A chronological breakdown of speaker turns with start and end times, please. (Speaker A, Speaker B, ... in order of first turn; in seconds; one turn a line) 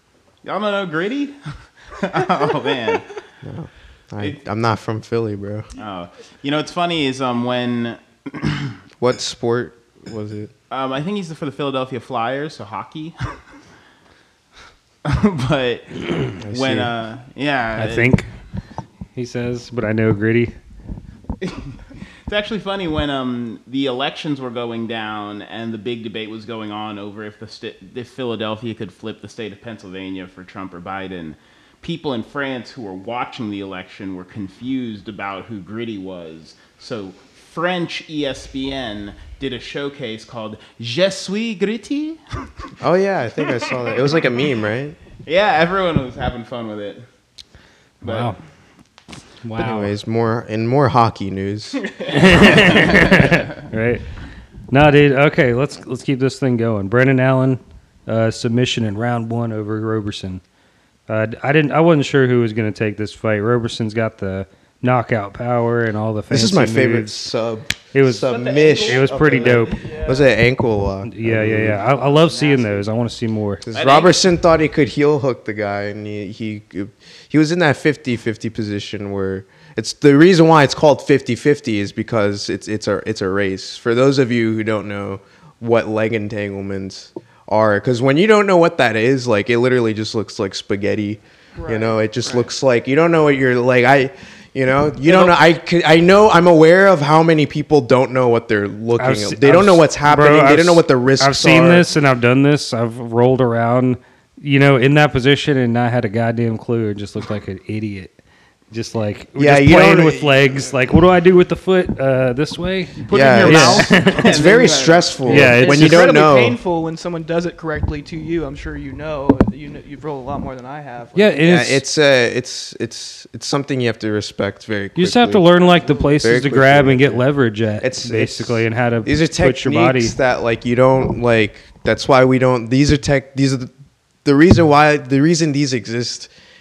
Speaker A: 0.4-3.2
Speaker B: 3.4-5.7
Speaker A: 5.8-8.8
Speaker B: 9.0-10.5
Speaker A: 10.7-13.2
Speaker A: 15.0-18.2
Speaker B: 16.4-16.9
Speaker C: 17.8-18.3
Speaker C: 19.1-20.6
Speaker A: 21.4-42.2
Speaker B: 42.8-45.0
Speaker A: 43.5-44.0
Speaker A: 45.2-47.0
Speaker A: 48.0-48.4
Speaker C: 48.0-48.4
Speaker C: 49.4-50.0
Speaker B: 49.6-51.9
Speaker A: 51.9-53.5
Speaker C: 52.1-54.1
Speaker C: 54.7-60.4
Speaker C: 61.1-67.2
Speaker B: 66.3-71.8
Speaker C: 67.9-69.8
Speaker D: 68.2-70.3
Speaker C: 71.1-73.6
Speaker D: 72.1-72.8
Speaker B: 73.6-101.9
Speaker A: 73.7-74.2
Speaker D: 91.6-92.5
Speaker C: 99.0-108.2
Speaker C: 108.7-114.3
Speaker B: 109.4-110.5
Speaker A: 113.1-115.4
Speaker B: 113.1-116.6
Speaker C: 115.3-116.1
Speaker D: 115.4-121.4
Speaker C: 121.2-121.8
Speaker B: 121.4-125.5
Speaker C: 125.0-130.1
Speaker D: 125.7-126.1
Speaker B: 126.2-127.3
Speaker B: 127.8-133.7
Speaker B: 134.2-136.3